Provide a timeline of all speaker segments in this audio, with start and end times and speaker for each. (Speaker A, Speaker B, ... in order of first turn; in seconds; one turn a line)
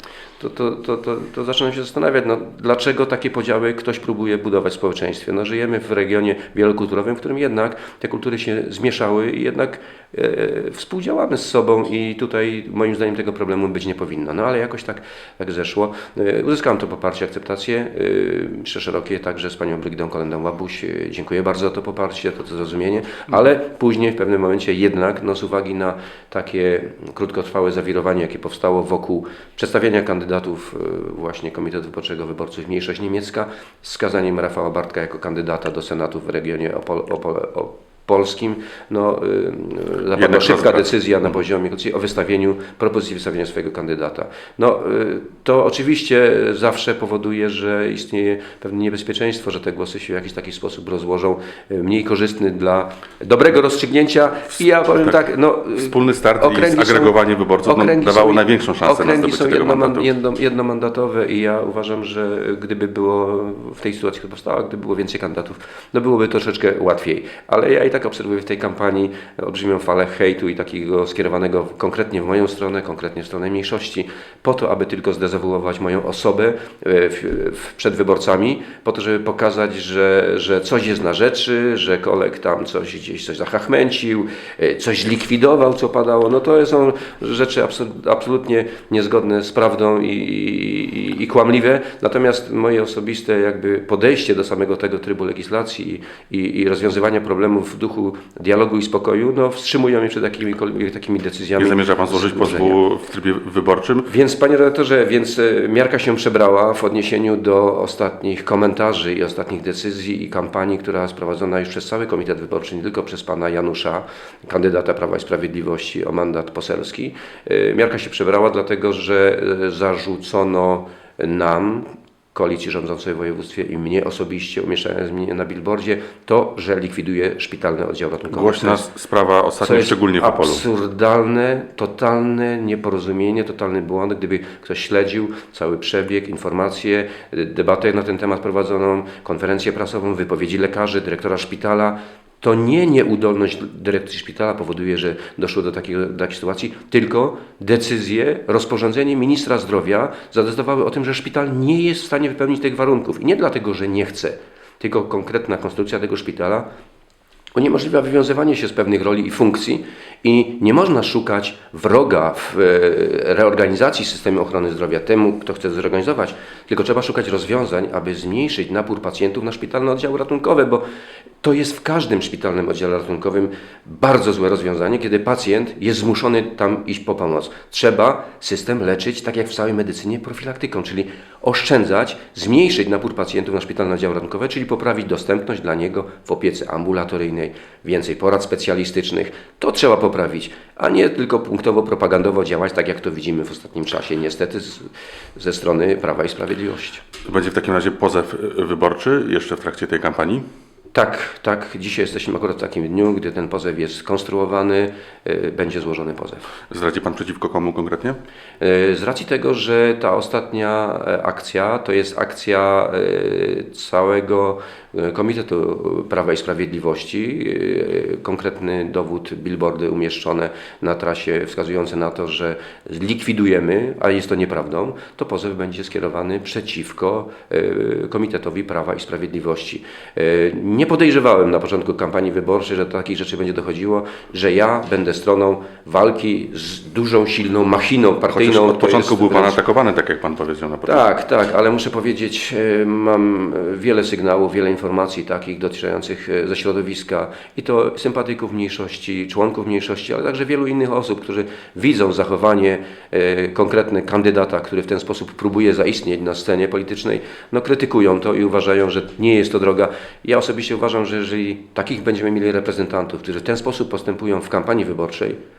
Speaker A: 0.4-102.8
Speaker B: 40.2-40.9
Speaker B: 55.7-60.1
Speaker B: 101.6-104.1
Speaker A: 104.1-128.8
Speaker B: 128.3-130.6
Speaker A: 129.6-156.7
Speaker A: 157.6-170.8
Speaker A: 171.4-197.0
Speaker B: 197.2-200.4
Speaker A: 200.9-206.5
Speaker B: 206.7-208.2
Speaker A: 208.6-239.6
Speaker B: 238.3-241.1
Speaker A: 240.8-265.4